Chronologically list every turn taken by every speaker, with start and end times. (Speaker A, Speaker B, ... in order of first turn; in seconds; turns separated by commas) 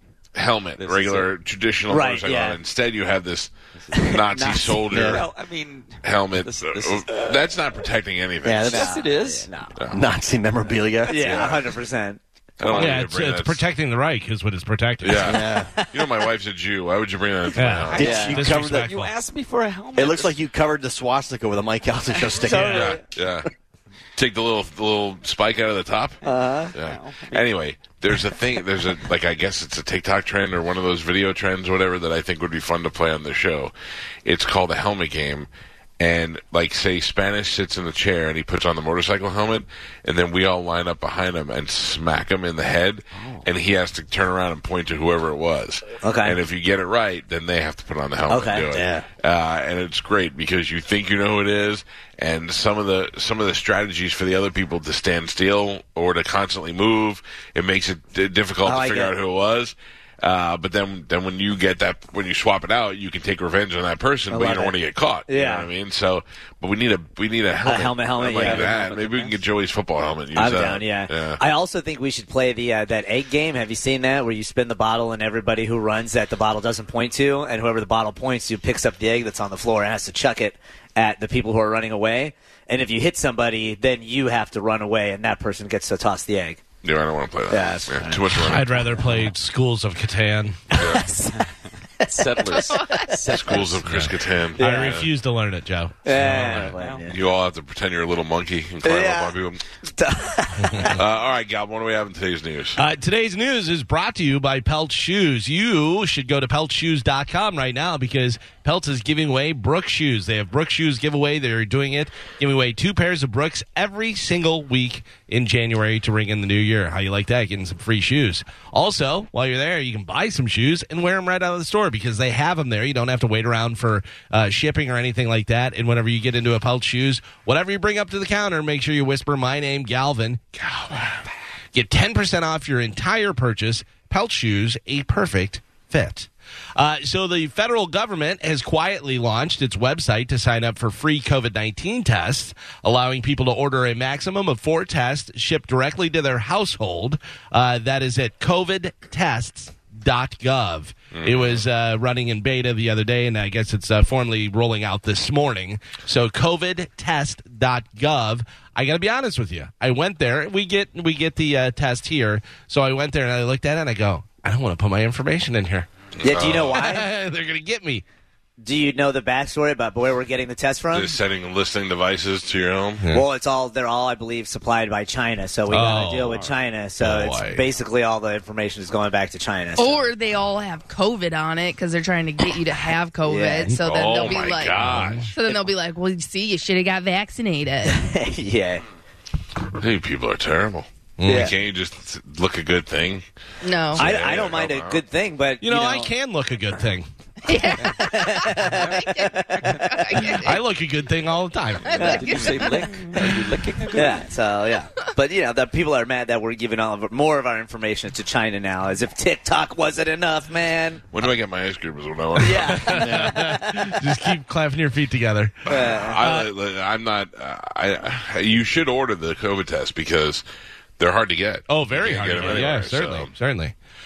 Speaker A: 0.3-5.2, Speaker B: 0.8-1.3, Speaker C: 1.9-2.6, Speaker B: 3.7-7.4, Speaker C: 4.1-4.8, Speaker D: 4.9-5.2, Speaker A: 6.0-8.7, Speaker D: 8.4-8.9, Speaker C: 8.6-9.7, Speaker B: 8.7-9.5, Speaker A: 9.8-10.0, Speaker D: 9.9-11.5, Speaker C: 11.1-12.8, Speaker A: 11.1-11.6, Speaker A: 12.6-13.6, Speaker E: 12.7-15.4, Speaker A: 15.0-18.3, Speaker D: 15.2-15.7, Speaker C: 15.7-16.3, Speaker E: 17.5-19.1, Speaker D: 17.9-18.9, Speaker C: 18.0-18.5, Speaker B: 18.3-20.4, Speaker D: 19.9-23.0, Speaker C: 22.2-23.1, Speaker A: 22.6-23.5, Speaker A: 24.1-26.2, Speaker B: 26.2-27.6, Speaker C: 26.2-26.7, Speaker A: 26.7-33.7, Speaker A: 34.2-71.4, Speaker C: 46.0-46.4, Speaker C: 48.3-48.7, Speaker D: 48.7-49.0, Speaker C: 58.6-59.1, Speaker C: 64.3-64.7, Speaker C: 65.3-65.7, Speaker C: 67.6-68.8, Speaker B: 68.3-69.4, Speaker C: 70.3-86.7, Speaker A: 86.8-88.8, Speaker C: 87.5-89.3, Speaker E: 88.3-90.6, Speaker C: 90.7-91.5, Speaker A: 90.7-91.1, Speaker C: 92.0-93.6, Speaker B: 92.0-93.8, Speaker F: 92.7-93.1, Speaker A: 93.3-95.1, Speaker E: 93.8-96.7, Speaker C: 94.6-95.1, Speaker C: 96.0-97.2, Speaker B: 96.1-97.2, Speaker A: 97.0-99.6, Speaker C: 98.8-101.0, Speaker E: 100.6-101.0, Speaker A: 100.9-102.8, Speaker E: 102.7-130.5, Speaker A: 130.6-131.2, Speaker E: 131.7-165.9, Speaker A: 151.1-151.7, Speaker A: 166.2-166.9, Speaker C: 166.2-167.1, Speaker E: 166.7-168.0, Speaker C: 168.6-171.2, Speaker A: 170.9-173.1, Speaker C: 173.1-180.1, Speaker E: 175.7-176.4, Speaker B: 175.7-176.6, Speaker E: 177.0-177.6, Speaker F: 179.8-188.1, Speaker C: 183.2-183.8, Speaker A: 183.7-185.3, Speaker E: 184.8-185.3, Speaker C: 185.4-185.7, Speaker C: 187.8-188.8, Speaker A: 189.8-193.2, Speaker E: 191.2-191.5, Speaker C: 191.2-191.5, Speaker F: 193.6-194.2, Speaker A: 193.9-195.0, Speaker C: 193.9-196.1, Speaker E: 195.6-197.1, Speaker F: 197.4-200.6, Speaker C: 197.5-200.4, Speaker B: 198.7-199.0, Speaker E: 200.4-202.0, Speaker F: 201.9-203.3, Speaker C: 201.9-203.2, Speaker B: 202.0-204.2, Speaker C: 203.9-211.1, Speaker A: 211.1-213.3, Speaker C: 212.3-213.9, Speaker E: 212.7-216.5, Speaker C: 215.7-216.2, Speaker A: 215.7-220.4, Speaker A: 221.0-223.3, Speaker E: 221.7-223.7